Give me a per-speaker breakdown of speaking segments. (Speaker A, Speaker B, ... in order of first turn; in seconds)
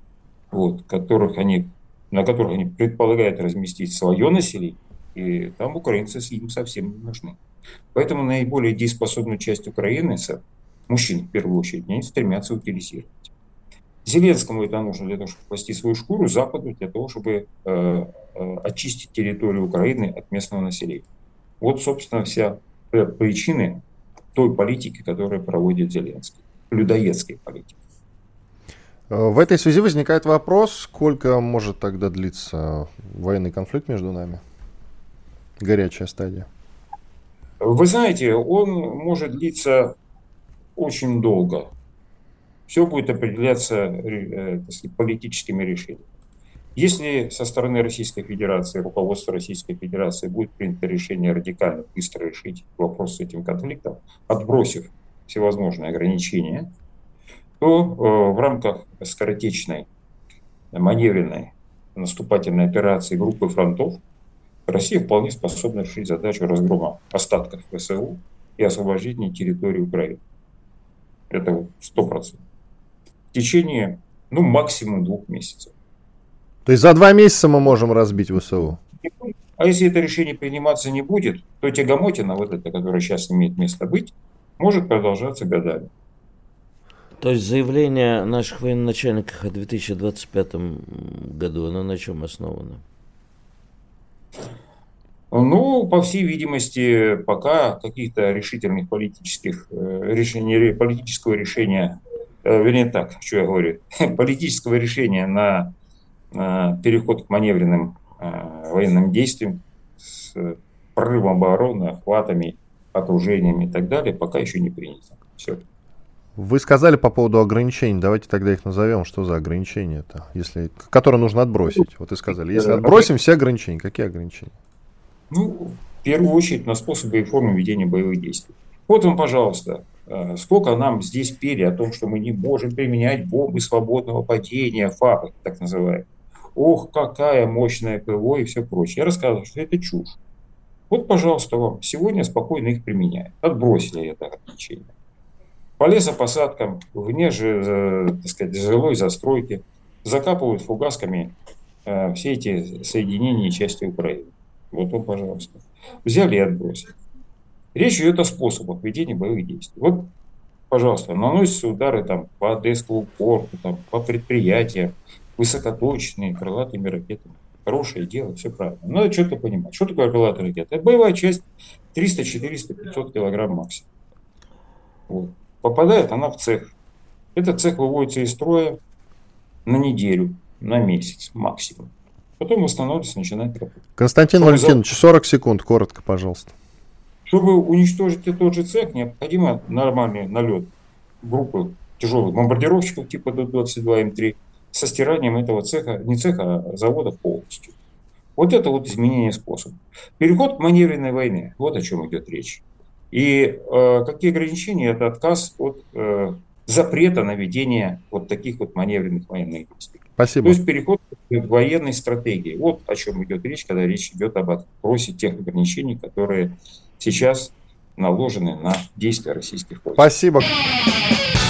Speaker A: 0.5-7.4, 7.9-13.3, 14.0-21.0, 21.6-23.8, 24.3-27.8, 37.6-39.9, 40.8-41.7, 42.7-46.0, 46.7-56.7, 57.6-59.9, 60.7-64.0, 64.7-70.2, 71.3-72.4, 73.3-75.7, 79.0-85.9, 95.3-105.7, 106.3-115.6, 122.5-123.0, 125.3-140.2, 140.9-144.9, 145.8-151.3, 151.8-156.9, 157.7-160.1, 160.7-173.8, 175.1-176.7, 177.3-178.8, 179.7-183.7, 184.4-184.8, 187.2-197.7, 198.4-220.1
Speaker B: 29.1-34.4, 35.6-36.5, 76.7-78.8, 116.3-124.5, 184.0-186.5, 210.2-210.6, 220.0-220.5
Speaker C: 87.2-92.8